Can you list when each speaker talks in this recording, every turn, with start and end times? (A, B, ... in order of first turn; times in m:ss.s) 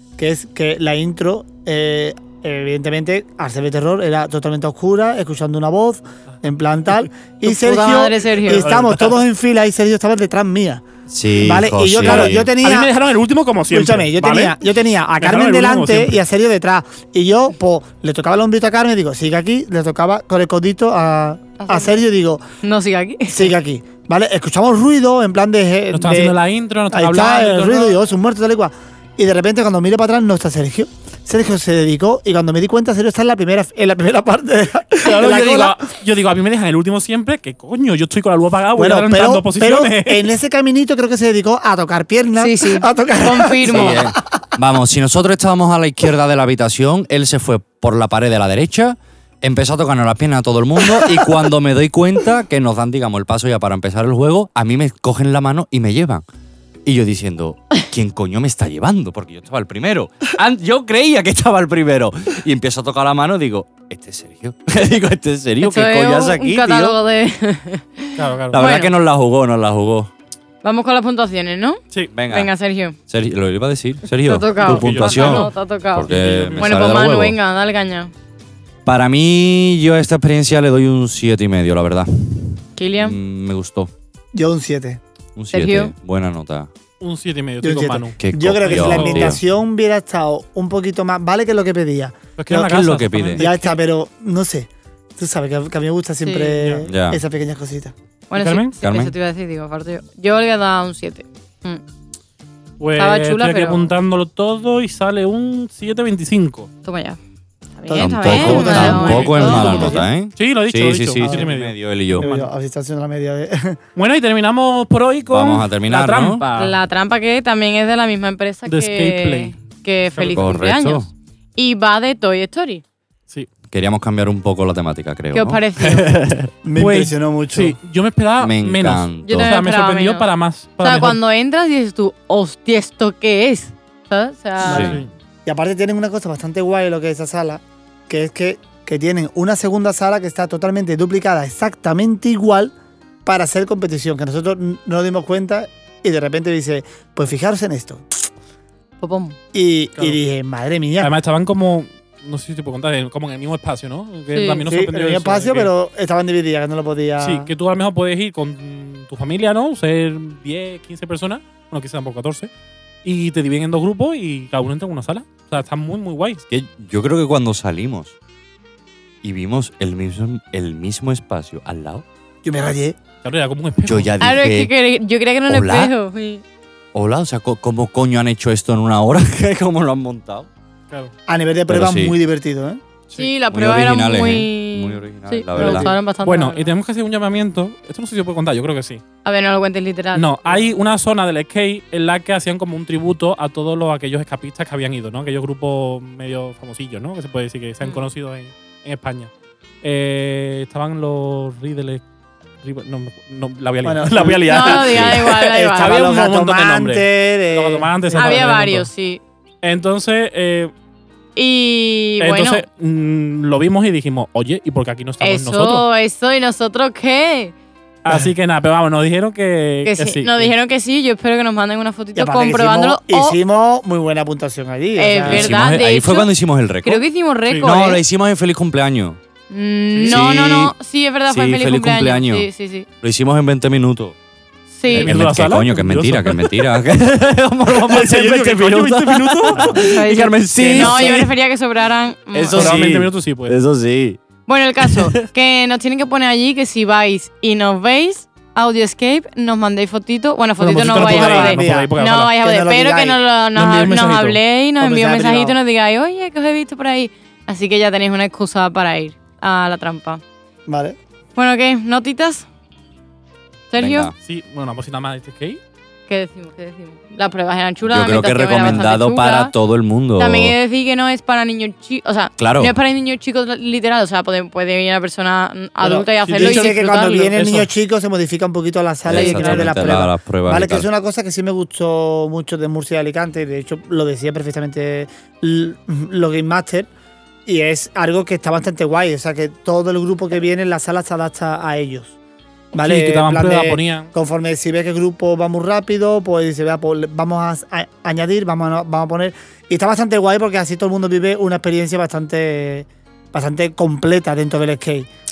0:00.2-0:10.8 A
0:07.4-0:08.7 B
0:08.4-0:09.2 C
0:11.1-0:12.5 D
0:11.4-0:12.9 A
0:12.0-0:14.6 C
0:13.7-0:22.4 A
0:15.2-0:16.2 C
0:21.6-0:22.0 B
0:22.6-0:23.5 B
0:23.3-0:26.4 A
0:25.9-0:28.0 C
0:26.9-0:35.8 A
0:35.0-0:40.3 C
0:38.8-0:44.2 A
0:42.4-0:44.0 B
0:43.7-0:56.2 D
0:56.8-1:07.0 D
1:05.6-1:08.9 B
1:08.2-1:08.6 C
1:08.5-1:10.1 D
1:10.6-1:13.0 B
1:12.1-1:12.5 D
1:13.1-1:17.4 D
1:14.1-1:18.1 B
1:14.6-1:17.0 C
1:18.9-1:23.9 D
1:22.8-1:23.2 B
1:24.3-1:25.0 A
1:25.4-1:26.7 D
1:25.5-1:25.9 B
1:27.0-1:29.4 C
1:27.6-1:32.7 A
1:28.2-1:29.4 D
1:32.4-1:33.8 C
1:32.5-1:33.5 D
1:33.4-1:37.9 A
1:36.2-1:36.6 B
1:36.6-1:36.9 C
1:36.8-1:37.2 D
1:38.3-1:41.8 B
1:38.3-1:38.8 C
1:38.8-1:39.2 D
1:42.8-1:46.7 C
1:43.0-1:43.9 B
1:46.8-1:47.2 B
1:47.8-1:50.0 B
1:47.9-1:50.1 A
1:47.9-1:52.3 D
1:48.2-1:52.5 C
1:51.2-1:51.5 A
1:52.2-1:53.8 A
1:54.0-1:56.8 C
1:55.3-1:56.4 D
1:56.5-2:02.8 B
1:58.7-1:59.6 C
2:00.2-2:00.5 C
2:00.3-2:01.1 D
2:03.7-2:05.6 D
2:05.3-2:06.2 B
2:05.8-2:11.2 C
2:06.6-2:07.8 A
2:08.4-2:09.5 D
2:09.2-2:10.3 B
2:10.8-2:15.0 B
2:14.6-2:15.1 C
2:14.7-2:15.0 D
2:15.4-2:22.7 A
2:23.2-2:28.0 A
2:29.0-2:29.4 B
2:29.5-2:31.1 A
2:31.0-2:35.7 C
2:34.3-2:34.6 B
2:34.6-2:37.5 A
2:37.2-2:42.5 C
2:43.0-2:46.4 C
2:46.5-2:48.2 D
2:49.2-2:52.0 D
2:52.4-2:53.0 A
2:53.2-2:54.4 C
2:53.9-2:54.7 D
2:54.2-2:56.4 B
2:55.5-2:55.9 D
2:56.9-3:00.5 D
3:01.3-3:02.8 A
3:01.7-3:02.1 D
3:03.2-3:06.7 B
3:03.5-3:05.9 D
3:05.6-3:09.0 C
3:09.2-3:10.7 B
3:10.2-3:19.3 C
3:17.8-3:18.1 B
3:19.8-3:22.0 C
3:22.6-3:28.9 C
3:23.8-3:28.4 A
3:24.5-3:26.1 B
3:28.1-3:29.2 B
3:29.6-3:30.7 C
3:31.4-3:32.6 B
3:32.2-3:35.8 C
3:35.2-3:37.5 B
3:38.0-3:40.5 C
3:39.8-3:43.4 B
3:42.2-3:45.5 A
3:45.0-3:46.3 B
3:45.2-3:47.0 D
3:46.8-3:48.0 B
3:47.6-3:49.2 D
3:49.5-3:52.9 B
3:50.0-3:50.2 C
3:50.0-3:50.7 D
3:51.3-3:52.5 D
3:53.0-3:54.2 D
3:54.7-3:55.1 B
3:54.9-4:01.2 D
3:54.9-3:56.8 C
3:57.7-4:00.0 C
3:59.7-4:02.8 B
4:00.5-4:01.3 C
4:02.4-4:03.6 C
4:02.5-4:04.2 D
4:04.5-4:20.2 B
4:10.6-4:12.3 C
4:10.8-4:13.2 A
4:13.6-4:14.4 C
4:14.8-4:15.6 A
4:20.7-4:21.0 A
4:21.4-4:22.5 B
4:23.7-4:24.1 B
4:23.8-4:24.2 D
4:24.2-4:25.6 C
4:26.1-4:29.5 B
4:27.9-4:30.6 D
4:30.2-4:37.3 B
4:32.4-4:32.8 D
4:35.8-4:46.9 A
4:36.2-4:37.7 C
4:39.1-4:40.9 D
4:39.1-4:39.8 B
4:47.5-4:52.2 A
4:52.7-5:05.1 A
4:52.8-4:54.1 C